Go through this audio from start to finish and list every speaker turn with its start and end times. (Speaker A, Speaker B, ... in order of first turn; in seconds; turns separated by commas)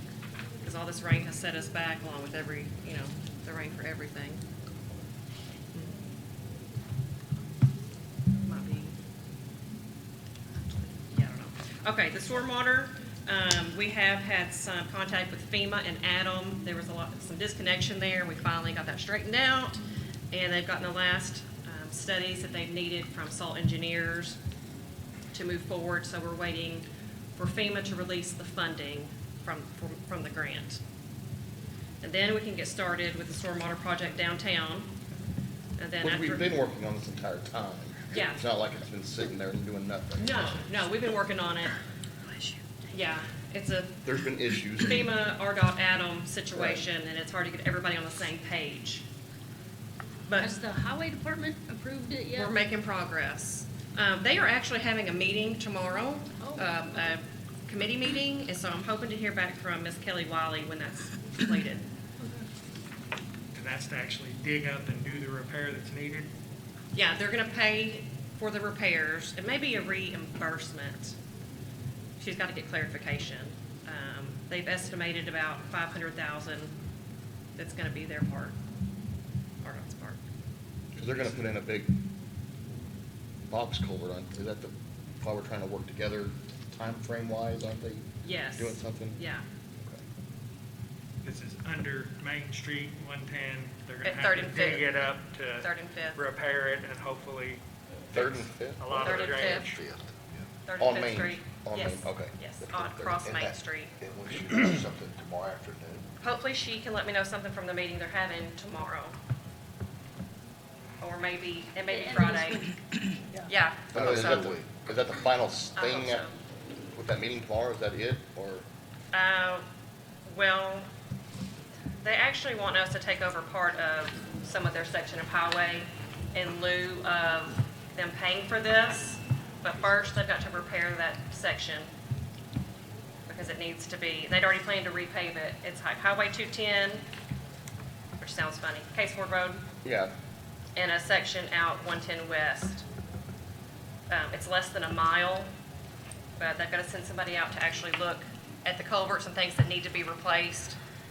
Speaker A: 0.6-4.4, Speaker A: 8.5-9.0, Speaker A: 10.6-19.8, Speaker A: 20.3-24.4, Speaker A: 25.3-30.8, Speaker A: 32.0-34.9, Speaker A: 35.8-36.5, Speaker B: 36.0-40.6, Speaker A: 38.1-38.4, Speaker A: 40.2-41.8, Speaker A: 42.9-44.0, Speaker B: 44.0-45.1, Speaker A: 44.8-49.1, Speaker B: 46.5-46.8, Speaker A: 50.3-50.5, Speaker C: 50.4-52.6, Speaker A: 52.3-61.9, Speaker C: 56.4-56.9, Speaker D: 63.5-66.3, Speaker A: 66.9-71.2, Speaker A: 72.2-76.7, Speaker A: 77.6-78.6, Speaker A: 79.6-80.2, Speaker B: 81.0-82.0, Speaker B: 83.5-89.2, Speaker A: 88.2-89.4, Speaker D: 91.2-99.8, Speaker A: 94.0-95.0, Speaker A: 95.6-96.2, Speaker B: 98.1-99.0, Speaker E: 99.0-100.5, Speaker A: 99.0-99.7, Speaker A: 100.7-103.9, Speaker B: 100.8-103.2, Speaker E: 103.2-106.1, Speaker A: 106.2-109.2, Speaker A: 111.0-112.7, Speaker C: 111.9-112.8, Speaker A: 113.5-114.5, Speaker B: 113.9-116.3, Speaker E: 113.9-114.7, Speaker A: 115.8-116.3, Speaker B: 117.0-118.7, Speaker A: 119.1-119.7, Speaker A: 120.3-120.9, Speaker A: 122.0-131.9, Speaker A: 133.3-137.0, Speaker A: 138.2-139.6, Speaker B: 139.8-140.1, Speaker A: 140.8-142.8, Speaker A: 144.1-145.5, Speaker A: 146.4-150.8